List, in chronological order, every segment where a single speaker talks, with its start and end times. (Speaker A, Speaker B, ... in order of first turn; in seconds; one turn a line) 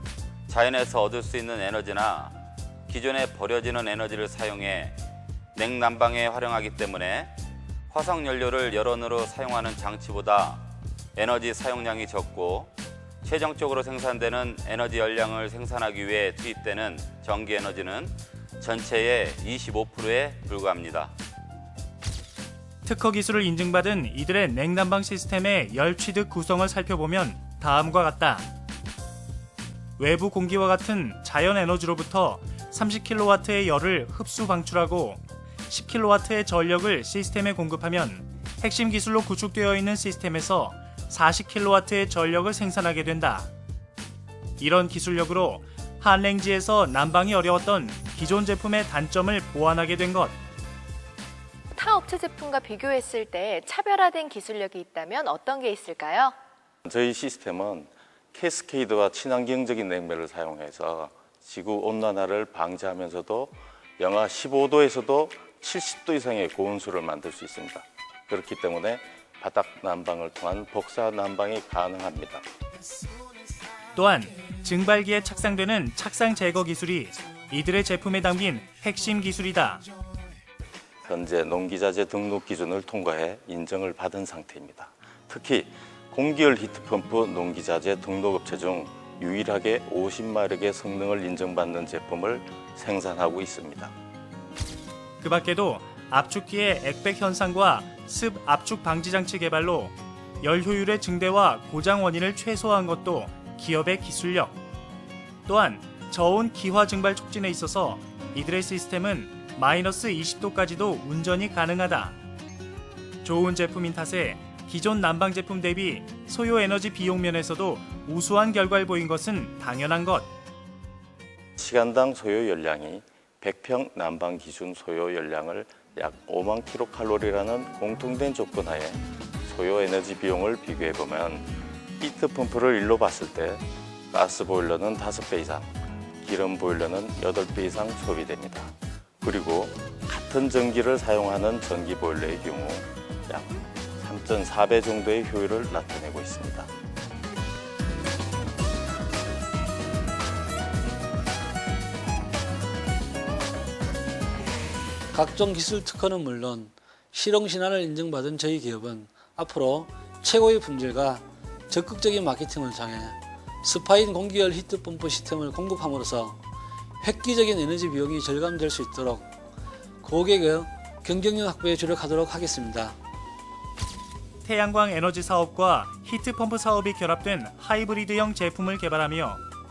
Speaker A: 0.5-2.4
Speaker A: 2.9-5.0
Speaker A: 5.5-7.3
Speaker A: 7.9-10.6
Speaker A: 11.2-12.7
Speaker A: 13.2-21.1
Speaker B: 22.8-28.5
Speaker B: 30.0-43.5
Speaker B: 44.6-50.4
Speaker C: 51.7-56.3
Speaker D: 56.8-72.4
Speaker B: 73.9-79.8
Speaker D: 81.0-93.9
Speaker B: 95.2-104.5
Speaker B: 105.5-112.2
Speaker B: 113.2-120.3
Speaker D: 121.6-146.7
Speaker E: 155.1-166.4
Speaker E: 167.0-169.3
Speaker E: 170.0-172.9
Speaker B: 174.4-179.4